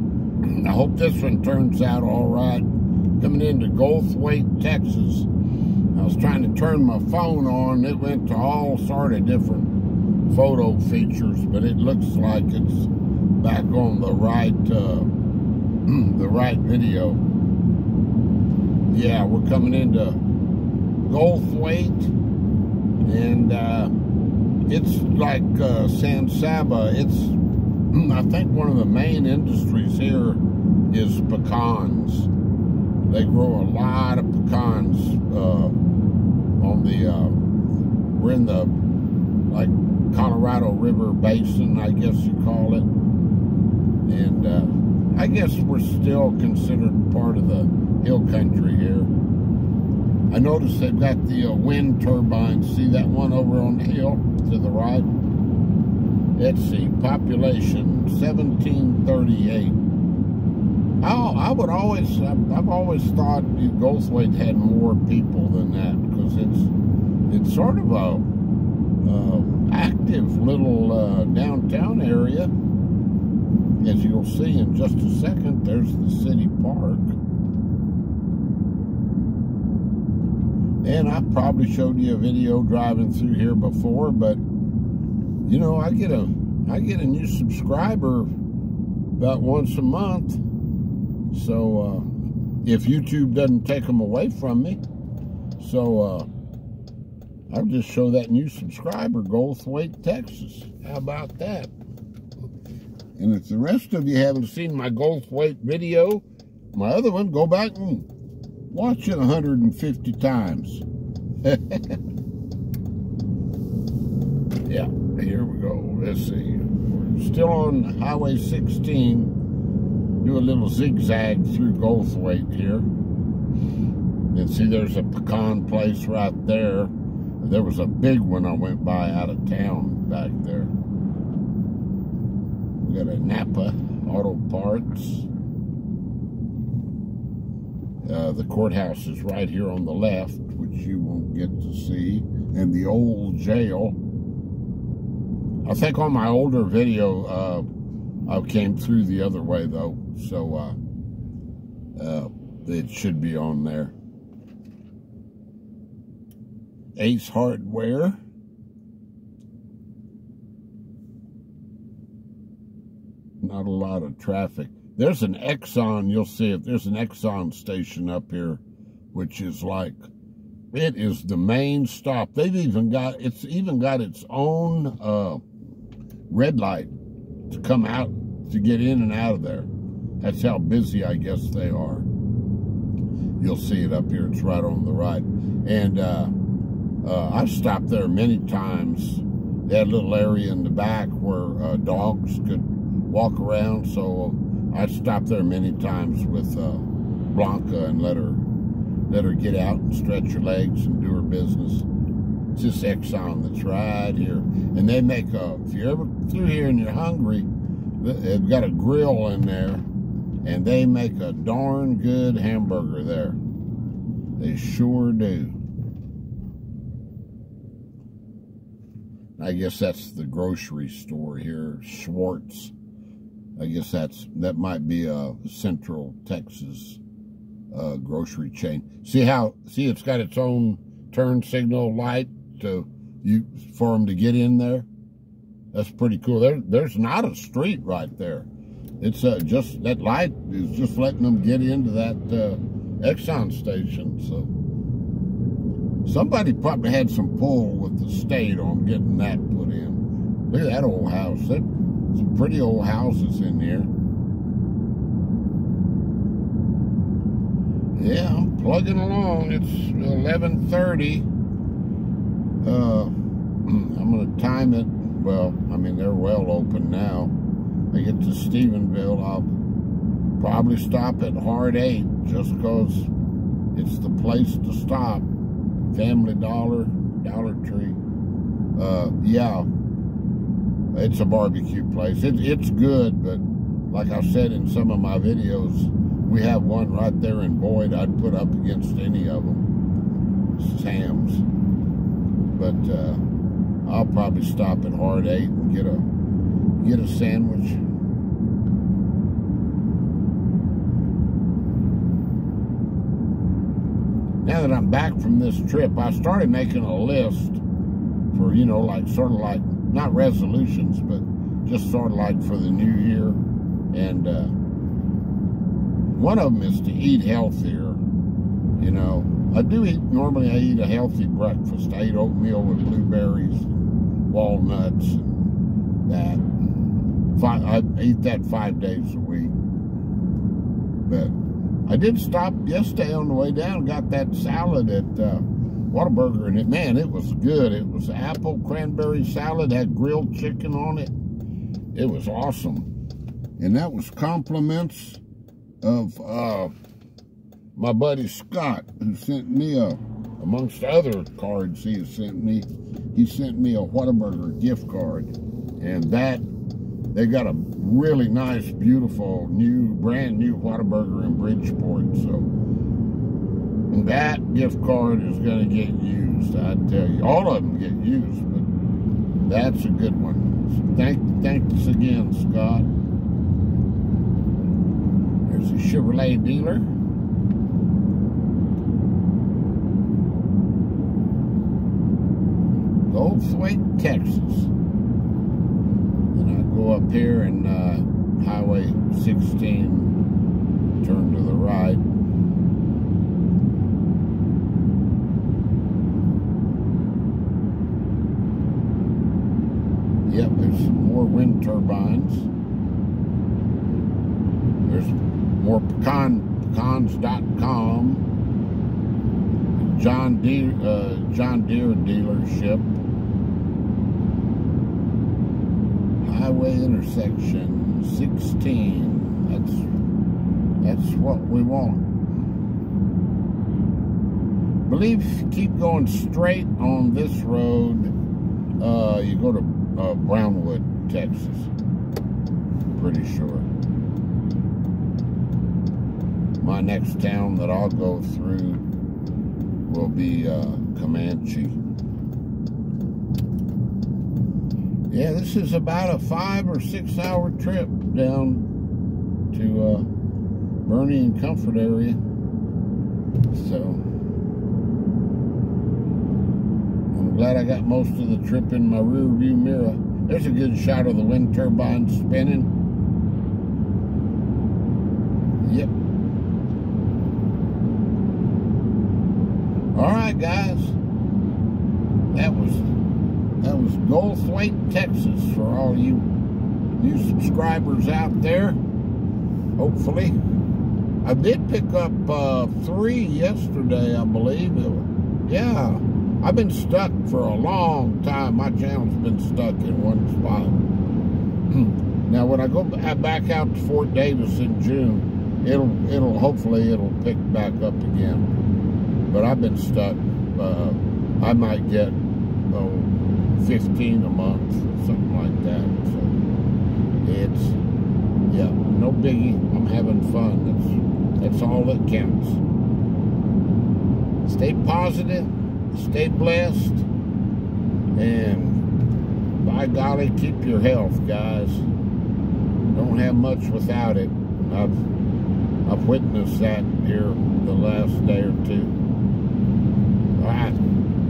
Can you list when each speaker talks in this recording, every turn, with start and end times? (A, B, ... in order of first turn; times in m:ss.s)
0:00.4-0:02.7 A
0:03.2-0:05.3 A
0:05.9-0:09.7 A
0:10.3-0:15.1 A
0:15.9-0:17.2 A
0:18.9-0:20.2 A
0:21.0-0:22.1 A
0:23.0-0:23.9 A
0:24.7-0:27.4 A
0:27.9-0:32.3 A
0:33.1-0:35.7 A
0:36.6-0:37.4 A
0:38.1-0:38.7 A
0:39.5-0:42.9 A
0:44.0-0:49.1 A
0:50.3-0:55.1 A
0:56.4-0:59.8 A
1:01.0-1:06.7 A
1:07.3-1:08.3 A
1:09.0-1:12.5 A
1:13.8-1:17.2 A
1:20.8-1:24.4 A
1:25.4-1:28.3 A
1:29.2-1:30.4 A
1:31.3-1:32.1 A
1:32.6-1:34.8 A
1:35.6-1:36.3 A
1:37.5-1:41.7 A
1:43.2-1:48.1 A
1:48.7-1:50.8 A
1:51.4-1:52.0 A
1:54.6-1:59.3 A
2:00.2-2:02.9 A
2:04.3-2:10.7 A
2:12.8-2:15.3 A
2:18.0-2:24.0 A
2:25.6-2:27.7 A
2:28.2-2:30.8 A
2:32.0-2:33.9 A
2:37.0-2:38.2 A
2:43.4-2:48.6 A
2:49.1-2:50.0 A
2:50.7-2:55.4 A
2:56.3-2:56.9 A
2:57.5-2:59.7 A
3:00.2-3:02.1 A
3:03.4-3:06.3 A
3:07.0-3:18.4 A
3:19.1-3:21.9 A
3:22.5-3:27.5 A
3:28.0-3:29.8 A
3:30.4-3:33.4 A
3:34.4-3:35.6 A
3:39.4-3:42.7 A
3:43.6-3:47.0 A
3:47.7-3:54.9 A
3:55.7-3:58.5 A
3:59.0-4:04.5 A
4:06.0-4:13.9 A
4:17.9-4:21.3 A
4:22.6-4:23.1 A
4:23.6-4:27.3 A
4:27.9-4:29.5 A
4:30.4-4:33.1 A
4:33.7-4:35.3 A
4:35.9-4:38.0 A
4:38.8-4:39.7 A
4:40.9-4:49.6 A
4:50.5-4:51.4 A
4:52.5-4:53.2 A
4:53.8-4:56.0 A
4:56.8-4:57.8 A
5:04.4-5:07.6 A
5:08.3-5:13.4 A
5:13.9-5:14.5 A
5:16.1-5:18.0 A
5:18.8-5:25.5 A
5:26.1-5:26.5 A
5:27.3-5:29.6 A
5:31.0-5:41.1 A
5:41.9-5:42.9 A
5:43.6-5:45.2 A
5:45.8-5:46.7 A
5:47.8-5:56.4 A
5:57.1-6:02.5 A
6:03.9-6:08.7 A
6:09.4-6:12.9 A
6:15.4-6:16.9 A
6:23.1-6:24.7 A
6:26.3-6:30.1 A
6:31.0-6:32.0 A
6:40.2-6:42.5 A
6:44.8-6:48.2 A
6:49.7-6:52.9 A
6:56.2-6:59.9 A
7:00.8-7:02.0 A
7:04.8-7:08.1 A
7:08.8-7:11.7 A
7:12.9-7:13.7 A
7:16.6-7:18.8 A
7:19.9-7:21.8 A
7:25.1-7:28.7 A
7:29.5-7:30.1 A
7:30.8-7:32.2 A
7:33.5-7:34.0 A
7:37.1-7:42.7 A
7:45.6-7:45.9 A
7:49.9-7:51.0 A
7:52.3-7:52.9 A
7:53.6-7:56.3 A
7:57.0-7:58.8 A
7:59.8-8:00.4 A
8:01.2-8:10.8 A
8:11.7-8:18.5 A
8:19.2-8:22.2 A
8:22.7-8:26.4 A
8:27.2-8:27.8 A
8:28.5-8:32.6 A
8:34.4-8:37.1 A
8:38.1-8:38.8 A
8:39.6-8:41.9 A
8:42.9-8:45.0 A
8:45.8-8:49.0 A
8:50.4-8:50.8 A